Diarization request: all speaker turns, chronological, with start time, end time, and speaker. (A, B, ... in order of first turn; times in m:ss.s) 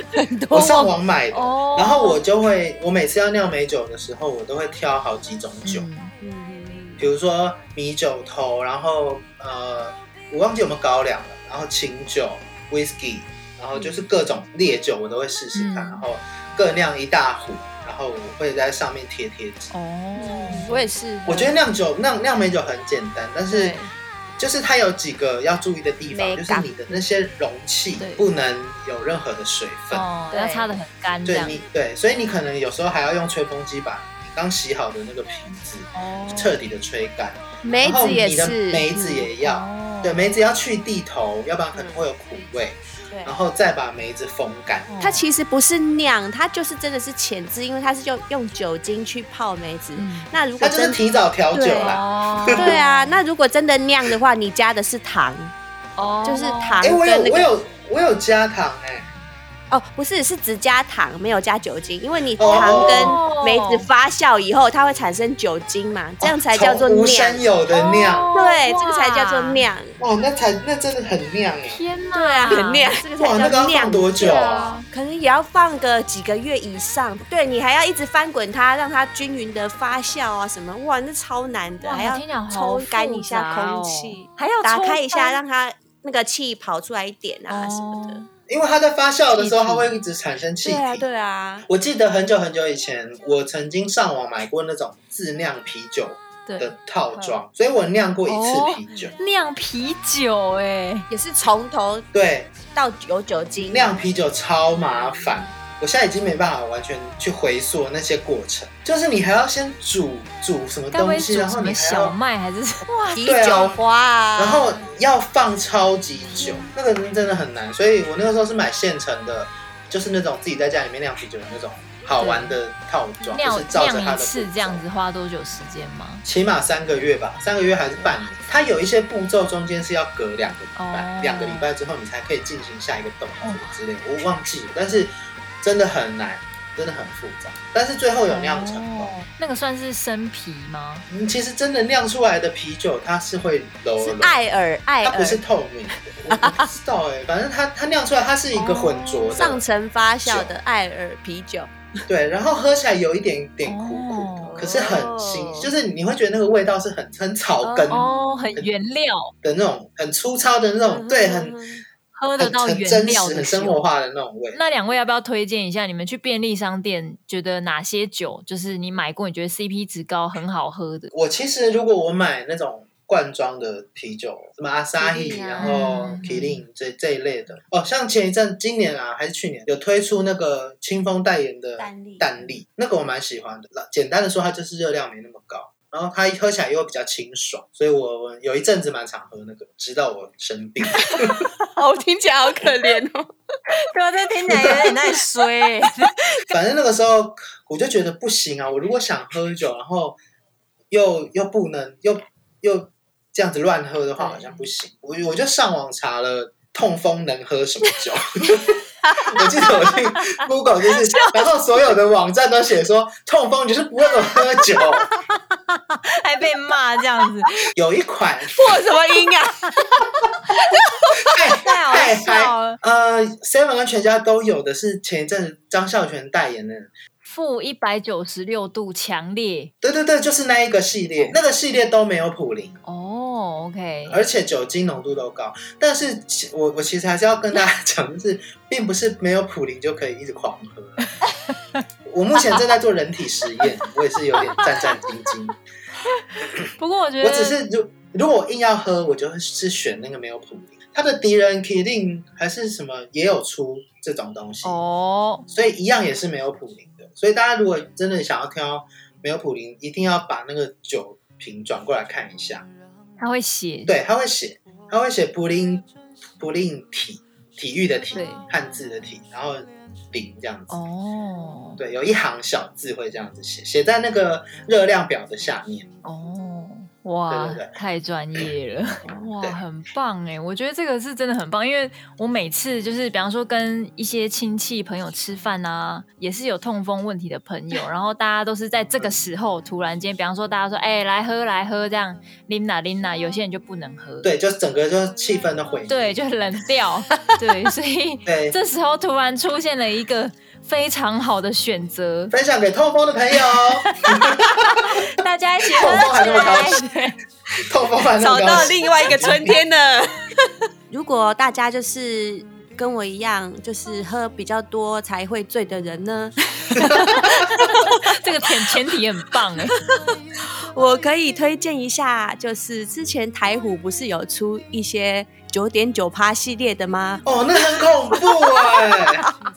0:00.2-0:00.9 A
0:00.5-0:05.9 B
0:01.3-0:02.2 C
0:05.6-0:06.1 C
0:06.2-0:07.0 A
0:07.0-0:19.7 B
0:13.7-0:14.0 A
0:15.6-0:16.0 C
0:19.7-0:20.8 C
0:20.2-0:21.6 A
0:21.3-0:23.8 B
0:23.5-0:23.9 A
0:24.4-0:30.1 B
0:26.1-0:26.9 A
0:28.0-0:28.2 C
0:29.9-0:31.6 C
0:30.3-0:30.7 A
0:31.3-0:44.9 B
0:36.0-0:36.6 C
0:37.6-0:39.3 A
0:39.4-0:40.3 C
0:41.7-0:42.0 A
0:43.1-0:43.4 A
0:44.9-0:45.2 C
0:45.0-0:51.0 A
0:50.0-0:50.3 C
0:50.6-0:52.8 B
0:51.5-0:52.0 A
0:51.8-0:53.2 C
0:52.5-0:55.5 A
0:56.0-0:56.8 C
0:56.2-0:57.5 A
0:56.8-0:59.1 B
0:59.7-1:07.4 A
1:02.4-1:03.2 B
1:02.6-1:03.9 C
1:06.2-1:08.3 B
1:07.7-1:09.6 C
1:08.3-1:10.0 A
1:10.0-1:11.8 B
1:11.7-1:12.9 C
1:12.1-1:28.2 A
1:13.2-1:14.7 B
1:14.2-1:14.9 C
1:21.8-1:25.4 C
1:27.5-1:28.3 C
1:28.5-1:31.0 B
1:29.3-1:30.0 C
1:30.6-1:31.7 A
1:31.7-1:39.2 B
1:36.5-1:36.7 C
1:38.3-1:41.1 C
1:41.1-1:42.1 A
1:42.1-1:42.6 B
1:42.7-1:43.9 A
1:43.7-1:52.2 B
1:50.9-1:52.9 C
1:52.9-1:54.7 A
1:53.2-1:53.8 B
1:54.4-2:04.8 B
1:56.4-1:56.7 C
2:02.2-2:02.6 C
2:03.3-2:06.2 C
2:06.2-2:19.1 B
2:08.2-2:08.4 A
2:10.8-2:11.7 C
2:13.4-2:13.8 C
2:18.3-2:21.0 C
2:21.1-2:24.4 B
2:24.0-2:25.4 A
2:25.0-2:29.6 B
2:26.3-2:26.7 A
2:28.6-2:31.8 A
2:30.2-2:30.5 B
2:32.1-2:38.7 B
2:33.6-2:34.6 C
2:34.5-2:35.7 A
2:37.6-2:38.0 A
2:37.9-2:39.3 C
2:39.4-2:41.6 B
2:40.8-2:41.8 A
2:42.2-2:43.8 C
2:42.4-2:44.6 B
2:44.5-2:51.1 C
2:51.1-3:11.5 B
2:55.0-2:55.8 A
2:55.6-2:56.6 C
3:01.8-3:02.3 A
3:11.0-3:13.3 A
3:13.8-3:16.1 C
3:14.6-3:14.9 A
3:16.5-3:20.2 B
3:20.9-3:35.1 B
3:29.0-3:29.5 A
3:30.9-3:31.5 A
3:35.7-3:37.5 C
3:37.8-3:38.8 B
3:38.6-3:41.3 A
3:41.3-3:46.9 B
3:41.6-3:42.8 C
3:47.2-3:49.7 C
3:49.8-3:52.8 B
3:52.8-3:54.2 C
3:54.1-4:01.1 B
4:02.0-4:05.6 B
4:04.4-4:04.7 C
4:06.8-4:07.6 C
4:07.2-4:14.8 B
4:14.6-4:15.4 C
4:15.5-4:22.7 B
4:23.2-4:23.9 C
4:23.9-4:25.9 B
4:26.4-4:30.8 B
4:28.1-4:28.5 C
4:30.7-4:31.8 C
4:31.8-4:35.9 B
4:36.0-4:54.3 C
4:37.3-4:37.8 B
4:39.1-4:39.6 B
4:54.2-4:56.2 B
4:55.9-5:02.3 C
4:58.3-4:58.6 B
5:02.3-5:05.0 B
5:03.9-5:07.2 C
5:05.7-5:06.8 B
5:07.6-5:09.6 B
5:08.2-5:18.0 A
5:16.9-5:19.8 C
5:19.8-5:20.1 A
5:20.7-5:29.3 A
5:27.3-5:29.2 B